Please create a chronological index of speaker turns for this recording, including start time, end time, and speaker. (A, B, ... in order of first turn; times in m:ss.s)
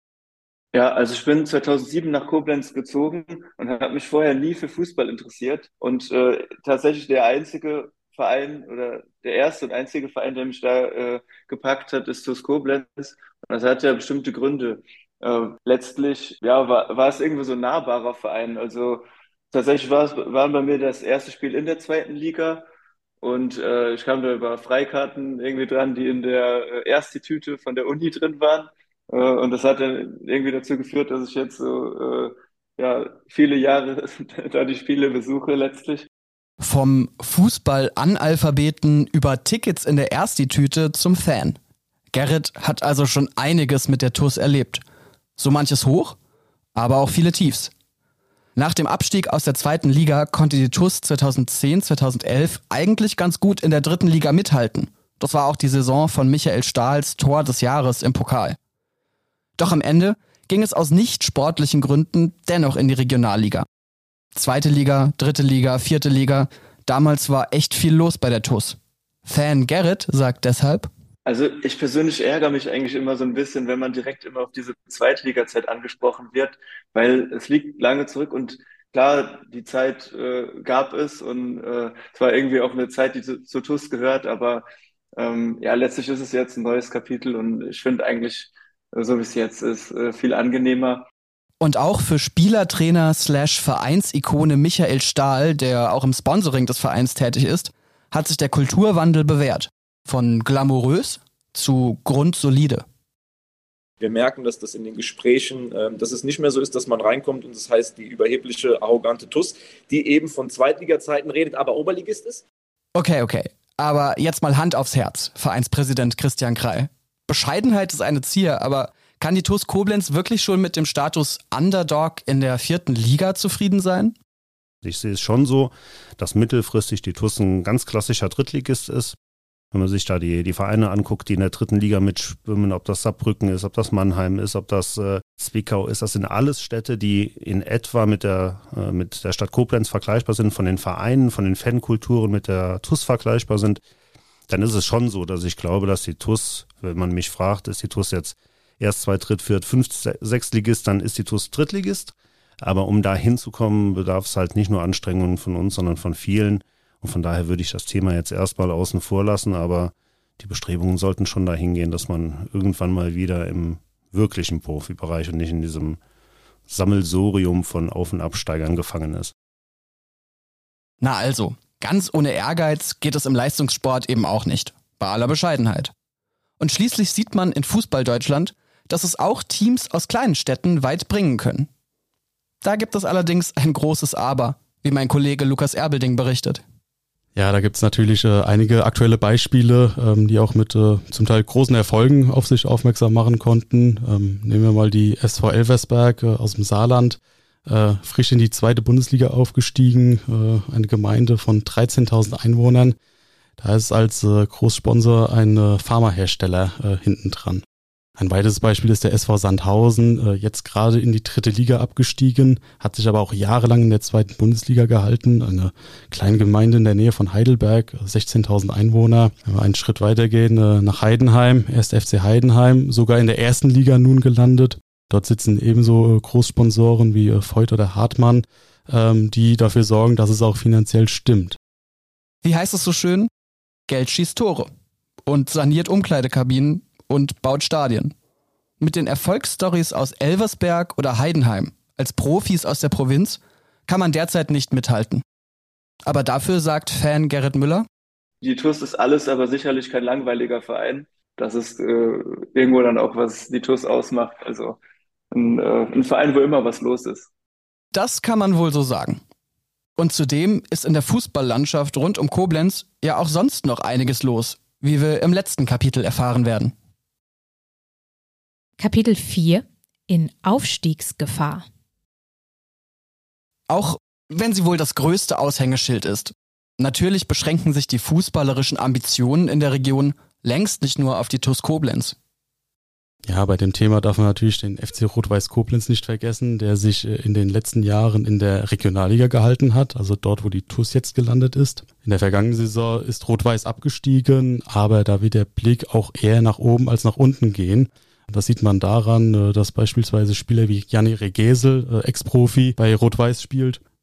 0:00.7-0:22.6 A
0:23.2-0:36.1 A
0:36.6-0:41.6 B
0:42.1-0:44.8 B
0:45.4-0:46.2 B
0:46.7-0:47.7 B
0:48.6-0:58.6 B
0:59.6-1:03.6 B
1:04.3-1:10.9 B
1:11.2-1:24.6 A
1:25.2-1:31.0 A
1:31.6-1:42.8 B
1:44.0-1:52.4 C
1:52.9-2:04.2 B
2:04.8-2:09.2 D
2:09.7-2:23.8 D
2:24.5-2:46.0 D
2:46.7-2:49.3 D
2:51.0-2:55.9 B
2:56.6-3:01.7 B
3:02.6-3:06.6 B
3:07.4-3:23.0 E
3:23.6-3:27.6 E
3:28.2-3:51.6 E
3:52.4-3:53.3 B
3:53.9-3:54.7 B
3:55.2-3:58.1 B
3:58.8-4:05.2 B
4:06.0-4:07.8 B
4:08.4-4:14.8 A
4:15.3-4:17.3 A
4:17.9-4:19.2 B
4:20.0-4:26.7 B
4:28.8-4:31.6 F
4:33.7-4:42.1 B
4:43.2-5:03.8 E